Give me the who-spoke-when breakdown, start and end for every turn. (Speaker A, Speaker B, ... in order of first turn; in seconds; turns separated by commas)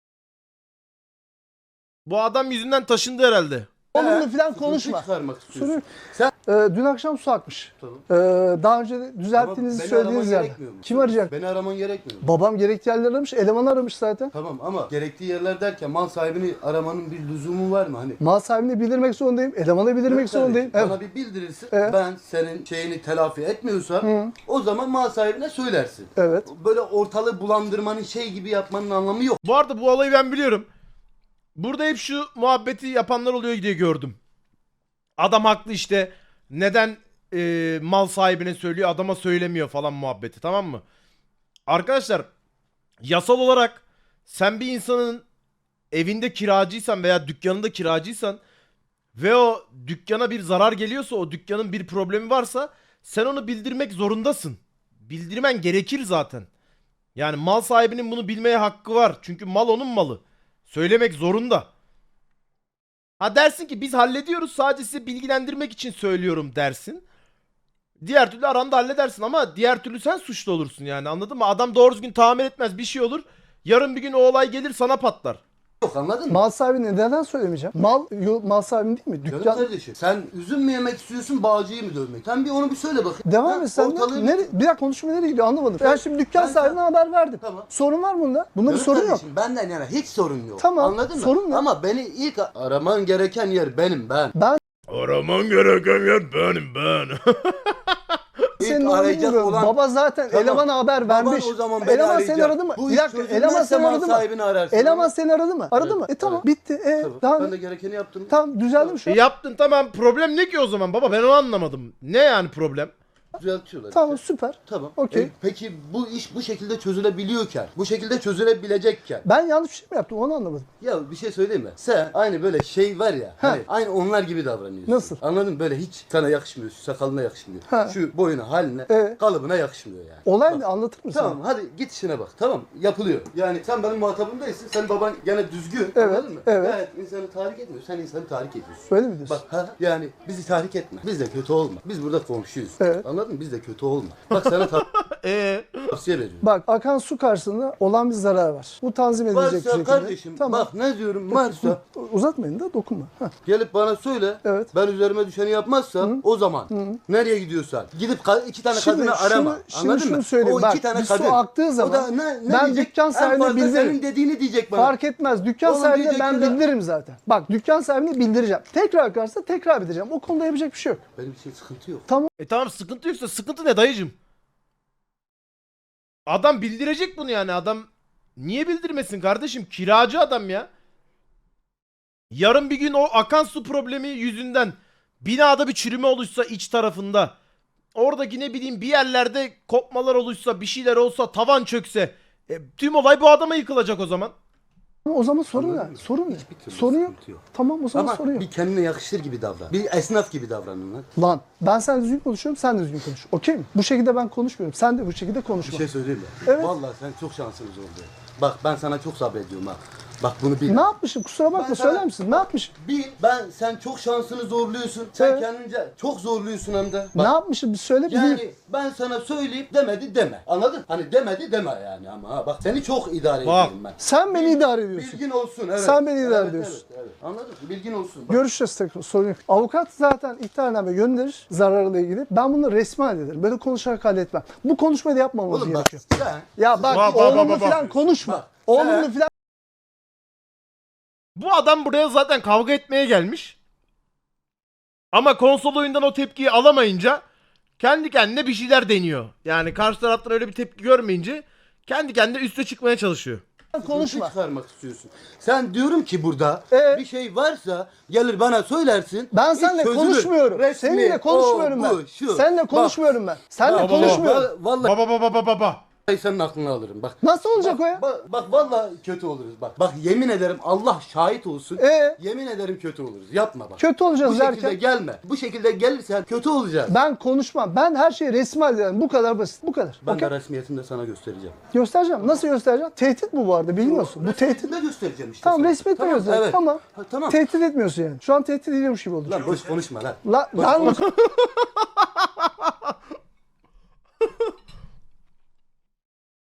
Speaker A: 2.0-3.7, Speaker B: 3.9-5.8, Speaker C: 3.9-6.3, Speaker B: 6.4-11.3, Speaker C: 7.8-8.0, Speaker C: 9.3-12.3, Speaker B: 12.2-14.3, Speaker C: 14.3-18.2, Speaker B: 18.2-21.0, Speaker C: 20.1-29.4, Speaker B: 21.7-22.0, Speaker B: 24.0-24.3, Speaker B: 26.1-26.5, Speaker A: 29.4-30.7, Speaker A: 31.6-34.2, Speaker A: 35.2-40.8, Speaker A: 41.7-42.3, Speaker A: 43.0-45.2, Speaker A: 45.9-48.4, Speaker A: 49.1-56.5, Speaker A: 57.1-61.7, Speaker A: 63.2-67.0, Speaker A: 68.0-75.4, Speaker C: 75.8-76.4, Speaker B: 76.3-79.7, Speaker C: 79.3-84.5, Speaker B: 83.2-89.2, Speaker C: 85.8-86.8, Speaker C: 87.4-87.7, Speaker C: 88.7-94.3, Speaker B: 90.6-91.6, Speaker A: 94.9-98.2, Speaker C: 98.6-99.8, Speaker B: 98.6-107.5, Speaker C: 100.3-105.1, Speaker C: 105.7-106.5, Speaker C: 107.0-109.0, Speaker B: 108.3-109.2, Speaker A: 109.0-112.9, Speaker C: 113.4-119.2, Speaker B: 113.9-115.3, Speaker B: 119.2-120.7, Speaker C: 120.8-144.8, Speaker B: 124.9-125.2, Speaker B: 127.7-127.9, Speaker B: 128.9-129.2, Speaker B: 130.2-131.4, Speaker B: 135.9-136.8, Speaker B: 138.9-139.4, Speaker B: 142.8-143.0, Speaker A: 144.3-145.9, Speaker C: 145.9-146.4, Speaker B: 146.4-150.7, Speaker C: 149.3-151.8, Speaker B: 151.3-153.3, Speaker C: 153.4-165.0, Speaker B: 154.4-154.7, Speaker B: 156.0-157.0, Speaker B: 158.7-164.0, Speaker B: 164.7-171.0, Speaker C: 165.6-166.6, Speaker C: 171.2-172.1, Speaker A: 172.4-174.1, Speaker A: 176.3-180.7, Speaker A: 182.3-187.3, Speaker A: 187.9-194.3, Speaker B: 195.1-198.4, Speaker C: 195.5-201.1, Speaker B: 201.2-205.8, Speaker C: 205.6-210.9, Speaker B: 206.4-206.7, Speaker B: 210.7-212.7, Speaker C: 211.5-217.3, Speaker B: 215.2-215.4, Speaker B: 217.1-218.4, Speaker C: 218.1-228.4, Speaker A: 223.4-223.8, Speaker B: 224.0-225.2, Speaker B: 225.8-226.8, Speaker B: 228.3-236.0, Speaker C: 235.5-239.1, Speaker B: 236.6-239.3, Speaker A: 236.9-237.8, Speaker A: 241.3-243.6, Speaker A: 245.1-247.2, Speaker A: 247.8-253.4, Speaker B: 253.7-254.3, Speaker C: 253.8-263.0, Speaker B: 256.7-257.0, Speaker B: 259.3-264.5, Speaker C: 263.6-264.9, Speaker A: 263.8-264.3, Speaker A: 264.8-265.8, Speaker C: 266.1-276.9, Speaker B: 267.2-268.0, Speaker B: 271.8-272.2, Speaker B: 273.8-274.8, Speaker B: 276.9-280.3, Speaker C: 280.0-281.6, Speaker B: 281.7-284.7, Speaker C: 283.8-287.4, Speaker B: 285.4-289.6, Speaker C: 289.2-291.0, Speaker B: 290.2-291.1, Speaker A: 290.7-292.7